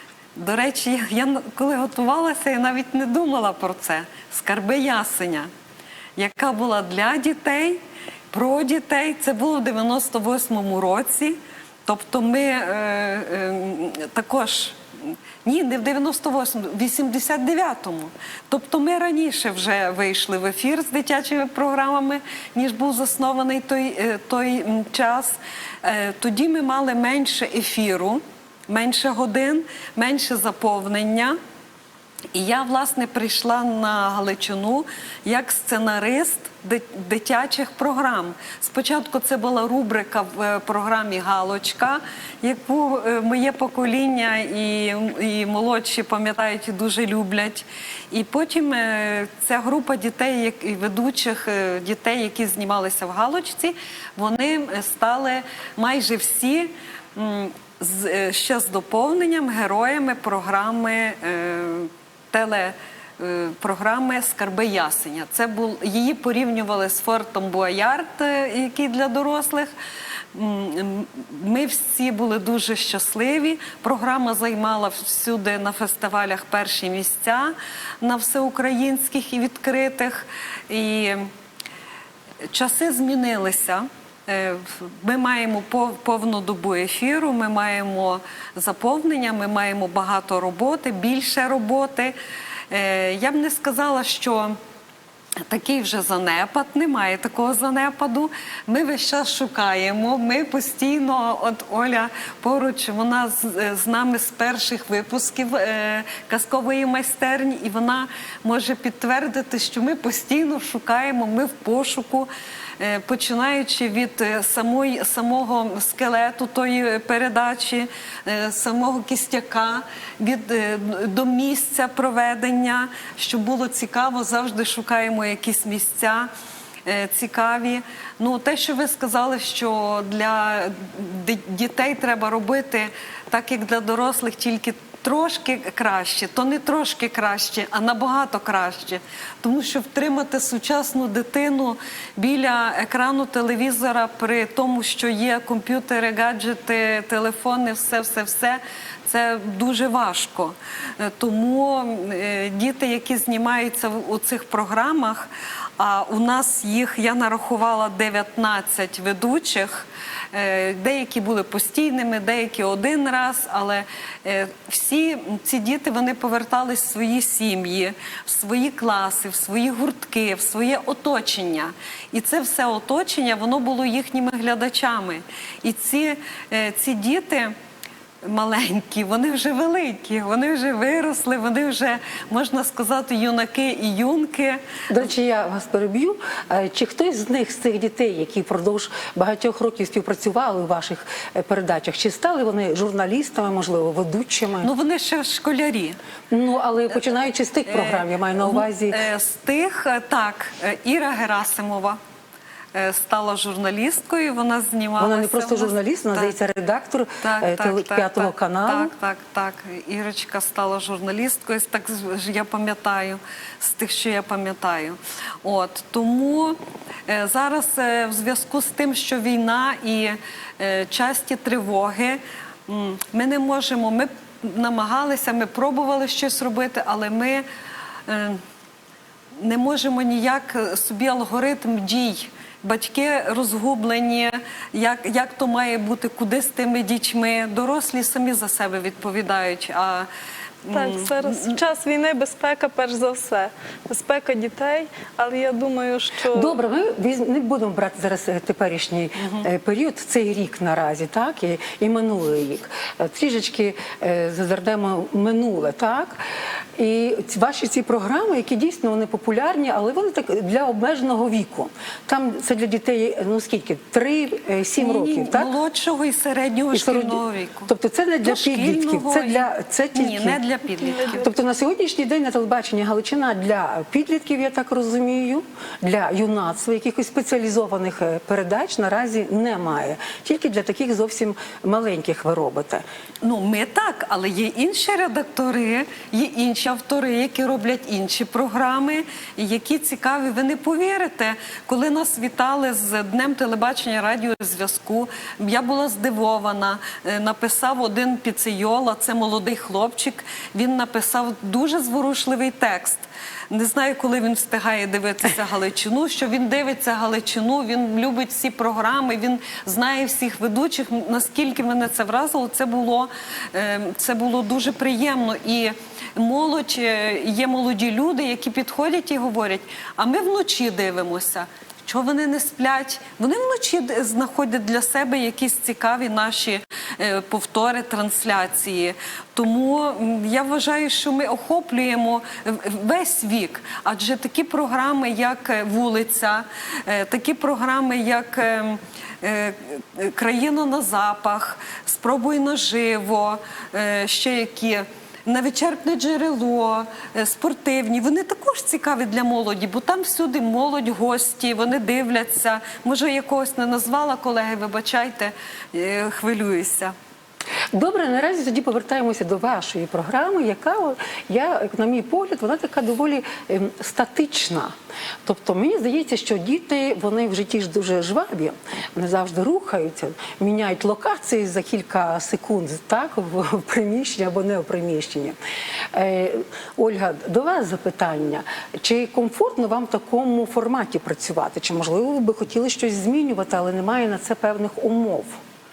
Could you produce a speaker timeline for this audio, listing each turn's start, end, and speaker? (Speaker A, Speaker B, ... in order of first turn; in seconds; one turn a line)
Speaker A: 0.3-5.5
Speaker A: 6.2-31.4
Speaker A: 32.3-69.7
Speaker A: 70.3-81.3
Speaker A: 82.5-92.1
Speaker A: 92.7-94.6
Speaker A: 95.5-126.3
Speaker A: 126.8-177.5
Speaker A: 178.2-184.6
Speaker B: 184.9-194.7
Speaker A: 194.6-196.0
Speaker B: 196.3-199.0
Speaker A: 197.7-202.0
Speaker A: 202.7-206.3
Speaker B: 205.0-208.9
Speaker A: 207.2-227.4
Speaker A: 228.1-228.4
Speaker A: 229.4-240.1
Speaker A: 240.6-241.6
Speaker C: 240.7-246.6
Speaker B: 246.3-256.2
Speaker A: 249.2-249.5
Speaker B: 256.8-265.5
Speaker A: 264.8-267.7
Speaker B: 266.7-270.4
Speaker A: 268.2-271.2
Speaker C: 270.8-271.3
Speaker B: 271.2-282.8
Speaker A: 283.2-356.9
Speaker B: 357.7-364.7
Speaker B: 365.3-375.4
Speaker B: 375.9-385.4